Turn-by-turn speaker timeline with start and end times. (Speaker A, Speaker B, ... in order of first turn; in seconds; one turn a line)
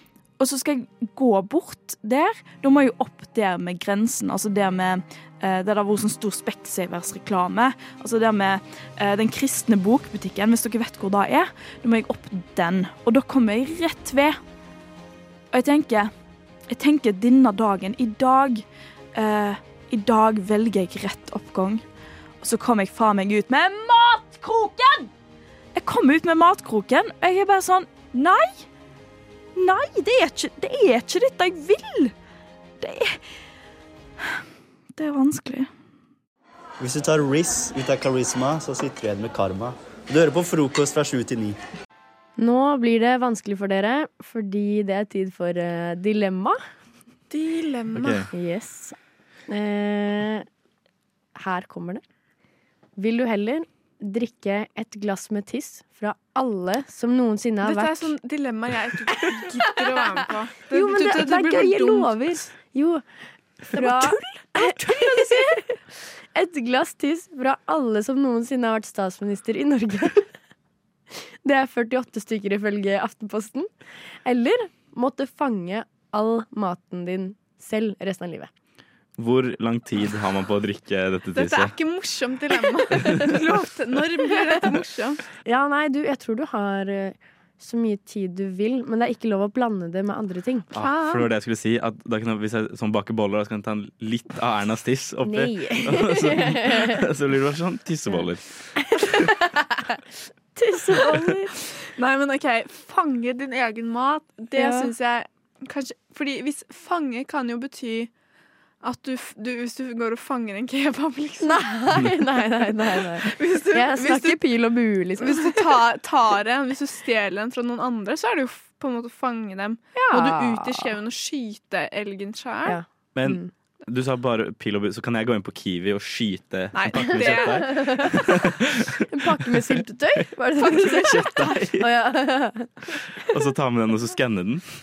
Speaker A: 0.4-14.4
Speaker A: 15.5-16.1
Speaker A: 16.7-21.8
Speaker A: 22.4-25.1
Speaker A: 25.7-28.6
Speaker A: 29.6-32.1
Speaker A: 32.8-33.2
Speaker A: 35.0-35.7
Speaker B: 36.8-41.6
Speaker C: 42.4-46.6
Speaker D: 47.3-48.3
Speaker E: 47.9-48.3
Speaker C: 48.3-49.0
Speaker C: 49.5-50.5
Speaker C: 51.3-52.0
Speaker C: 53.0-58.1
Speaker D: 57.6-62.4
Speaker C: 59.2-59.8
Speaker C: 60.7-63.0
Speaker C: 63.6-65.6
Speaker D: 63.8-65.6
Speaker C: 66.3-70.3
Speaker C: 71.4-73.7
Speaker C: 74.2-78.5
Speaker E: 79.2-81.7
Speaker D: 81.3-85.2
Speaker E: 82.9-83.2
Speaker C: 85.5-90.7
Speaker E: 90.7-99.3
Speaker D: 90.7-91.3
Speaker C: 95.2-97.1
Speaker C: 98.1-99.8
Speaker C: 100.5-101.5
Speaker D: 101.8-108.1
Speaker C: 104.5-104.9
Speaker D: 108.8-111.7
Speaker C: 111.4-115.8
Speaker D: 113.1-114.4
Speaker D: 115.2-122.8
Speaker C: 120.1-121.0
Speaker C: 122.6-123.5
Speaker E: 123.1-129.6
Speaker D: 126.7-128.3
Speaker C: 127.1-128.3
Speaker C: 129.1-132.7
Speaker D: 130.6-131.6
Speaker E: 130.6-131.9
Speaker E: 133.2-134.6